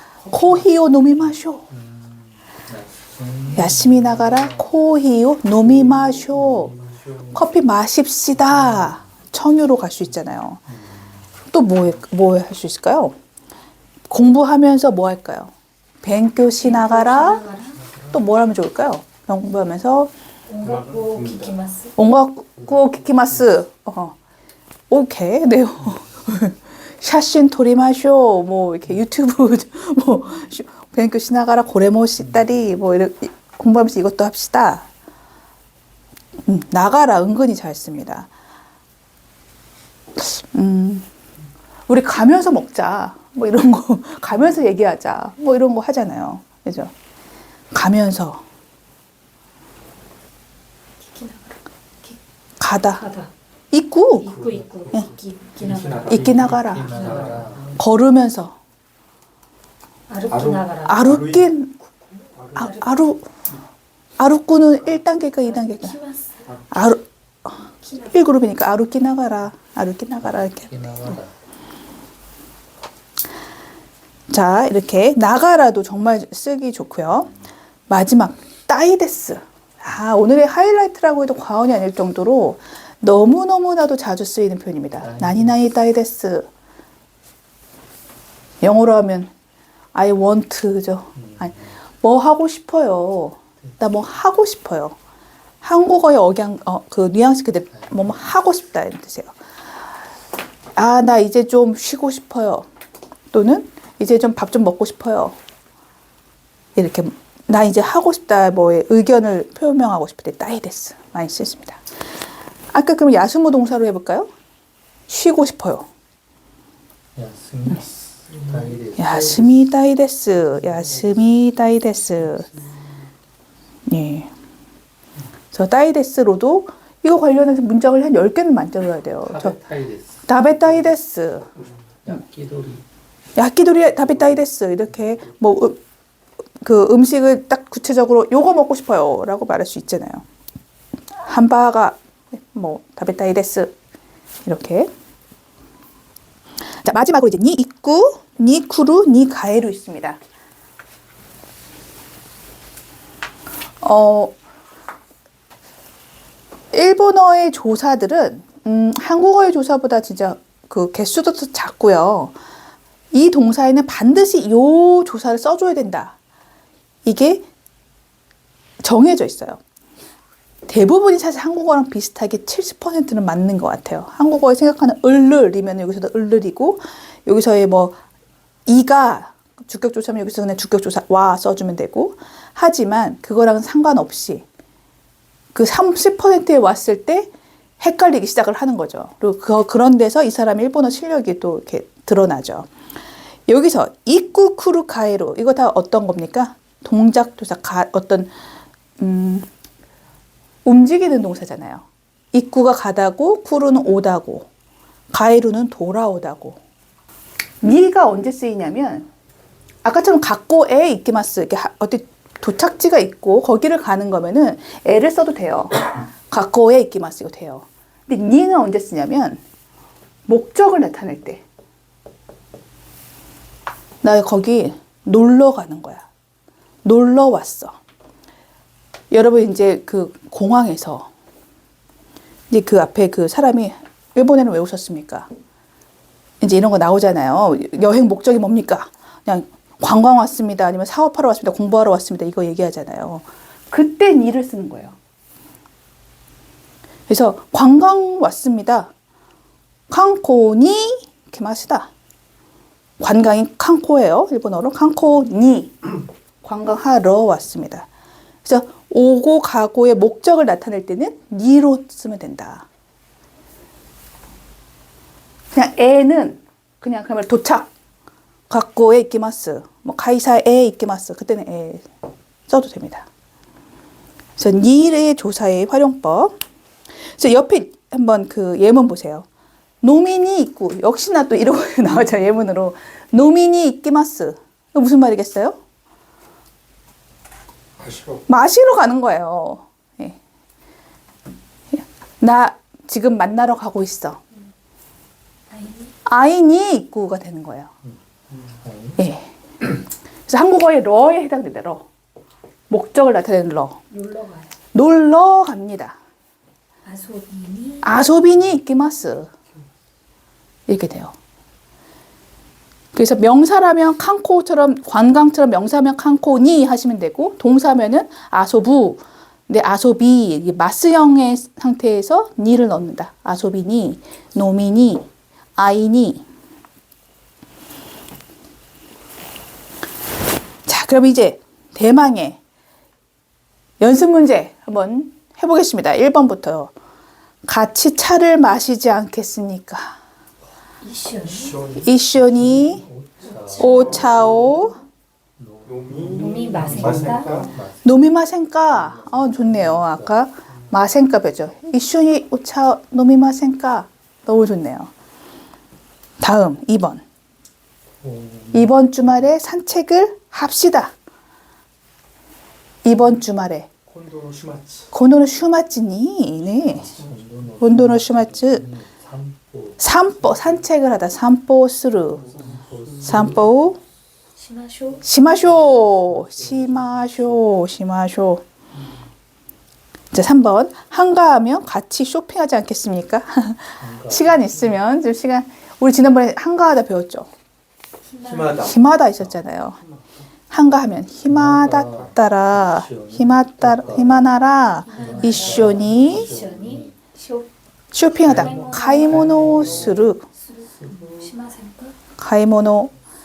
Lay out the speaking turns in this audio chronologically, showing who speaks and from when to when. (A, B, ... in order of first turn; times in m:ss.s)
0:00.2-0:00.7 A
0:00.3-0:01.7 B
0:01.7-0:04.7 C
0:03.5-0:06.7 B
0:05.5-0:07.5 C
0:07.3-0:10.6 B
0:08.3-0:09.0 C
0:10.6-0:11.2 C
0:11.5-0:13.1 B
0:14.1-0:15.5 B
0:16.0-0:17.4 B
0:16.6-0:17.8 D
0:18.1-0:20.1 B
0:20.5-0:22.0 D
0:20.6-0:21.5 A
0:22.0-0:24.1 B
0:24.9-0:34.9 B
0:36.4-0:38.3 B
0:40.2-0:41.0 B
0:41.9-0:46.9 B
0:47.7-0:48.4 B
0:51.0-0:52.2 D
0:52.6-0:53.0 B
0:53.0-0:53.3 D
0:53.7-0:54.3 B
0:54.2-0:56.2 D
0:54.2-0:57.8 C
0:55.6-0:57.6 A
0:56.1-0:58.6 B
0:56.9-0:57.5 D
1:00.1-1:01.2 D
1:00.3-1:01.5 A
1:00.8-1:01.7 B
1:01.8-1:02.8 D
1:02.3-1:02.8 A
1:02.6-1:03.3 B
1:04.2-1:06.0 B
1:05.4-1:06.5 D
1:06.7-1:07.5 B
1:07.8-1:08.1 D
1:08.1-1:11.2 B
1:10.2-1:11.3 C
1:14.3-1:17.3 B
1:17.9-1:26.5 B
1:25.0-1:25.6 C
1:28.6-1:29.3 B
1:29.9-1:35.0 B
1:31.2-1:31.8 C
1:35.6-1:39.3 B
1:37.7-1:38.1 C
1:40.8-1:42.6 B
1:43.3-1:45.4 B
1:46.8-1:51.8 B
1:52.7-1:54.3 B
1:55.1-1:55.8 B
1:57.1-1:59.6 C
1:59.0-2:02.4 B
2:03.9-2:04.3 B
2:05.5-2:09.6 B
2:09.2-2:10.9 C
2:10.3-2:11.5 B
2:12.0-2:12.8 C
2:13.4-2:15.8 B
2:16.6-2:20.2 B
2:21.2-2:23.7 B
2:24.4-2:24.9 B
2:26.8-2:30.2 B
2:33.8-2:34.4 B
2:36.7-2:42.3 B
2:43.1-2:46.1 B
2:47.0-2:47.4 B
2:48.8-2:49.6 B
2:50.7-2:58.0 B
2:58.6-3:04.4 B
3:05.5-3:07.3 B
3:07.8-3:12.7 B
3:13.5-3:18.3 B
3:19.0-3:19.5 B
3:20.6-3:24.5 B
3:25.1-3:26.6 B
3:27.6-3:29.1 B
3:29.8-3:39.4 B
3:40.3-3:41.4 B
3:44.0-3:46.0 B
3:46.8-3:47.8 B
3:49.1-3:51.1 B
3:52.5-3:55.3 B
3:56.4-4:05.0 B
4:07.1-4:08.9 B
4:09.9-4:11.9 B
4:13.0-4:17.9 B
4:18.4-4:22.6 B
4:25.5-4:27.7 B
4:28.5-4:31.8 B
4:32.5-4:33.1 B
4:34.4-4:36.3 B
4:37.2-4:39.2 B
4:39.8-4:45.6 B
4:47.8-4:48.2 A
4:48.3-4:50.2 B
4:51.7-4:54.2 B
4:55.5-4:55.9 D
4:56.0-4:57.7 B
4:58.6-4:59.0 C
4:59.0-4:59.3 B
5:00.3-5:01.8 B
5:02.7-5:03.8 B
5:03.9-5:04.5 D
5:04.7-5:06.0 B
5:06.8-5:07.9 D
5:07.8-5:09.3 B
5:10.7-5:11.1 B
5:12.9-5:26.2 B
5:30.6-5:32.4 B
5:33.8-5:36.7 B
5:37.4-5:40.0 B
5:40.8-5:41.7 D
5:41.2-5:41.9 A
5:41.7-5:42.8 B
5:42.0-5:43.7 C
5:43.2-5:44.2 D
5:43.6-5:44.8 B
5:43.6-5:44.6 A
5:45.4-5:48.0 C
5:45.7-5:47.6 A
5:46.1-5:47.6 D
5:47.8-5:54.9 B
5:48.7-5:50.2 C
5:56.2-5:57.0 B
5:58.0-5:58.7 C
5:58.5-6:00.9 B
6:02.8-6:03.7 B
6:03.9-6:04.9 A
6:04.9-6:06.9 B
6:06.7-6:10.6 C
6:07.6-6:08.6 B
6:09.8-6:12.2 B
6:12.1-6:13.5 C
6:12.3-6:13.4 A
6:13.0-6:13.8 B
6:14.4-6:15.0 D
6:15.0-6:18.4 B
6:15.6-6:17.2 C
6:20.1-6:27.3 B
6:23.8-6:24.7 C
6:28.0-6:28.7 D
6:28.2-6:30.3 A
6:28.6-6:29.8 B
6:30.5-6:36.3 B
6:31.3-6:34.3 C
6:34.9-6:37.5 D
6:34.9-6:37.0 C
6:37.9-6:40.2 B
6:38.2-6:40.0 C
6:38.2-6:42.0 D
6:40.6-6:41.3 C
6:42.2-6:42.9 B